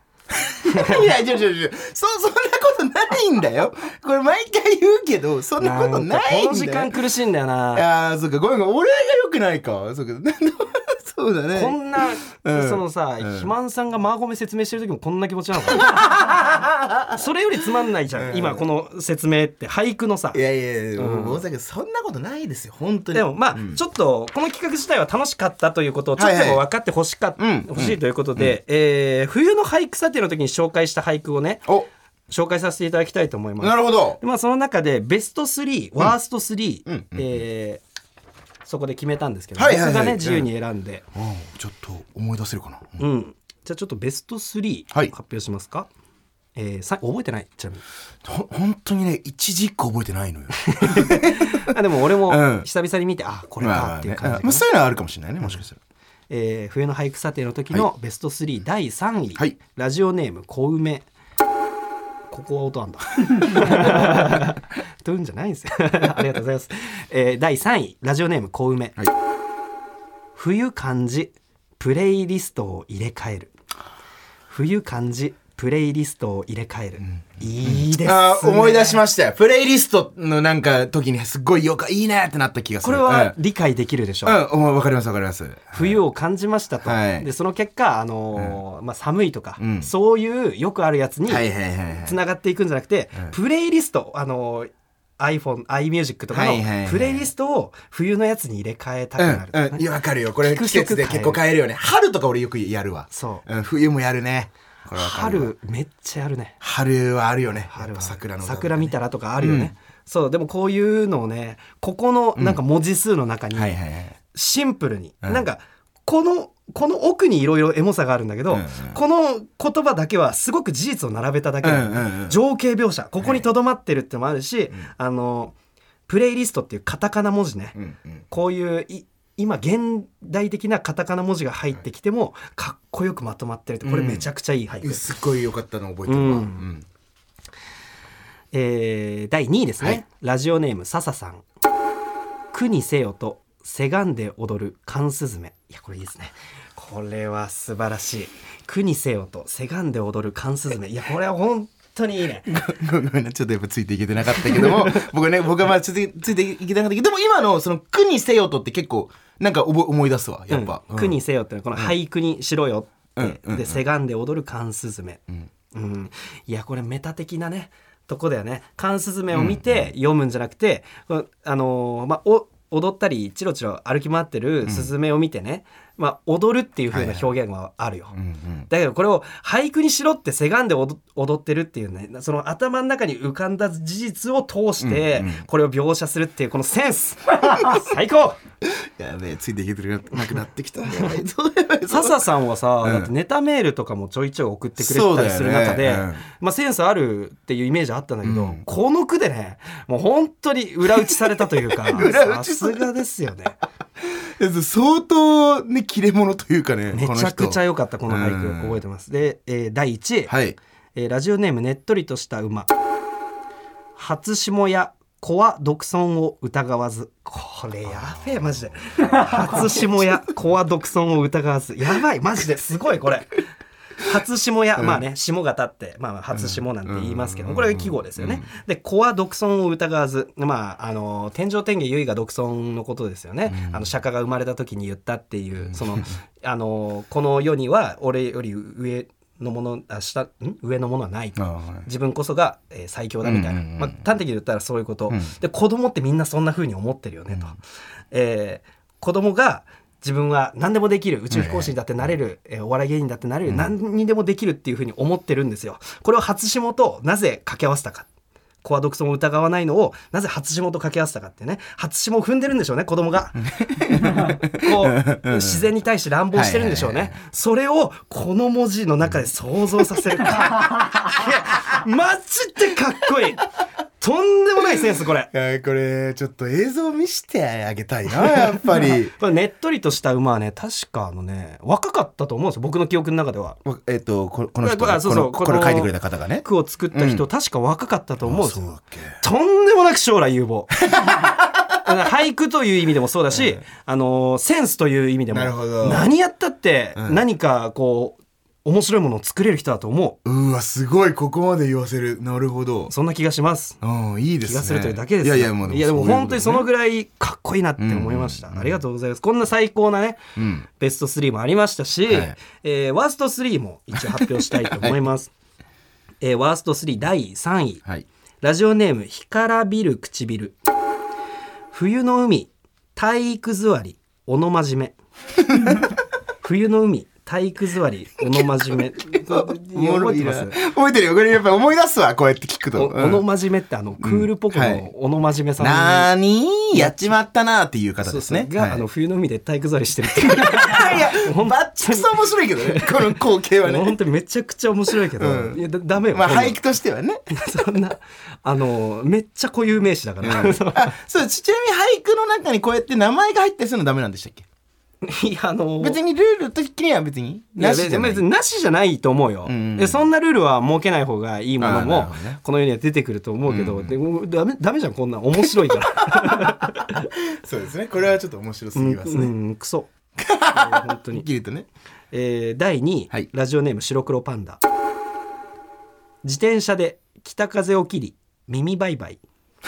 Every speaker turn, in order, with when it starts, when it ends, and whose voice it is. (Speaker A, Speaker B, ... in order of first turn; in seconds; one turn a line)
Speaker A: 0.3-6.9
Speaker B: 0.6-1.0
Speaker B: 5.6-7.9
Speaker A: 7.7-13.5
Speaker B: 11.5-16.1
Speaker A: 15.7-17.2
Speaker B: 17.1-20.4
Speaker A: 18.1-18.6
Speaker A: 20.3-23.8
Speaker B: 20.9-21.4
Speaker B: 23.1-31.7
Speaker A: 26.2-26.6
Speaker A: 27.4-28.5
Speaker B: 32.3-37.8
Speaker A: 33.6-34.2
Speaker A: 36.9-37.4
Speaker B: 38.6-41.0
Speaker A: 39.5-40.5
Speaker A: 41.1-43.0
Speaker B: 43.0-45.9
Speaker B: 46.5-47.8
Speaker A: 48.2-52.7
Speaker B: 50.5-54.6
Speaker A: 53.6-55.8
Speaker B: 56.3-61.1
Speaker B: 62.3-69.0
Speaker A: 63.4-64.2
Speaker B: 70.4-73.5
Speaker B: 74.5-79.0
Speaker A: 77.1-83.4
Speaker B: 82.8-84.4
Speaker A: 84.2-86.0
Speaker B: 85.7-91.5
Speaker A: 86.8-87.3
Speaker A: 89.6-89.9
Speaker A: 91.3-92.2
Speaker B: 92.0-99.9
Speaker A: 96.3-97.3
Speaker A: 99.2-105.5
Speaker B: 100.4-101.4
Speaker B: 103.1-103.5
Speaker B: 104.9-106.6
Speaker A: 106.6-109.7
Speaker B: 107.7-113.8
Speaker A: 112.4-112.6
Speaker A: 113.5-114.2
Speaker B: 114.3-125.5
Speaker A: 118.5-119.0
Speaker A: 121.6-122.4
Speaker B: 126.1-127.8
Speaker A: 127.8-128.2
Speaker B: 128.3-135.0
Speaker A: 133.8-134.3
Speaker A: 134.8-136.9
Speaker B: 136.1-136.7
Speaker B: 138.5-141.4
Speaker B: 142.5-152.5
Speaker A: 152.5-161.2
Speaker B: 154.4-155.1
Speaker B: 160.5-165.2
Speaker A: 163.2-163.8
Speaker B: 165.7-178.2
Speaker A: 169.3-169.9
Speaker A: 174.6-174.9
Speaker A: 176.9-177.3
Speaker A: 178.1-178.7
Speaker B: 178.7-188.4
Speaker A: 184.8-185.4
Speaker A: 187.4-187.8
Speaker A: 188.6-192.3
Speaker B: 191.9-203.6
Speaker A: 192.8-193.1
Speaker A: 194.8-196.2
Speaker A: 198.2-198.6
Speaker A: 200.9-202.9
Speaker A: 204.0-208.8
Speaker B: 206.9-210.3
Speaker A: 210.3-210.6
Speaker B: 210.9-212.7
Speaker B: 213.9-223.4
Speaker A: 217.9-220.1
Speaker B: 224.0-247.6
Speaker A: 224.8-225.0
Speaker A: 226.3-228.5
Speaker A: 233.5-233.9
Speaker A: 235.7-236.0
Speaker A: 241.4-241.9
Speaker A: 243.2-244.0
Speaker B: 248.1-258.1
Speaker A: 251.3-251.7
Speaker B: 258.6-273.5
Speaker A: 263.5-265.6
Speaker A: 266.3-267.1
Speaker B: 274.0-275.3
Speaker A: 275.3-279.1
Speaker B: 278.8-283.6
Speaker A: 283.6-287.2
Speaker B: 284.6-290.8
Speaker A: 288.2-289.2
Speaker A: 290.9-291.8
Speaker B: 291.8-300.2
Speaker A: 295.3-296.1
Speaker A: 296.9-297.2
Speaker A: 300.2-302.9
Speaker B: 302.9-303.8
Speaker A: 303.8-306.7
Speaker B: 304.4-310.2
Speaker A: 307.8-308.8
Speaker A: 310.4-310.7
Speaker B: 310.8-315.3
Speaker A: 312.1-312.4
Speaker A: 313.9-315.0
Speaker B: 316.2-317.8
Speaker B: 318.4-320.6
Speaker B: 321.7-325.0
Speaker A: 325.4-325.9
Speaker B: 326.4-330.6
Speaker A: 328.3-333.2
Speaker B: 332.7-336.1
Speaker A: 334.0-334.9
Speaker A: 335.6-338.8
Speaker B: 336.7-337.0
Speaker B: 338.0-346.6
Speaker A: 340.1-343.9
Speaker A: 345.1-347.2
Speaker B: 347.3-350.9
Speaker A: 350.2-354.4
Speaker B: 355.0-356.0
Speaker A: 355.8-358.2
Speaker B: 357.6-367.1
Speaker A: 359.4-360.1
Speaker A: 361.6-362.4
Speaker A: 363.5-363.9
Speaker A: 365.4-369.3
Speaker B: 368.7-369.9
Speaker A: 370.1-371.7
Speaker B: 370.5-371.3
Speaker B: 372.1-374.6
Speaker B: 376.2-379.2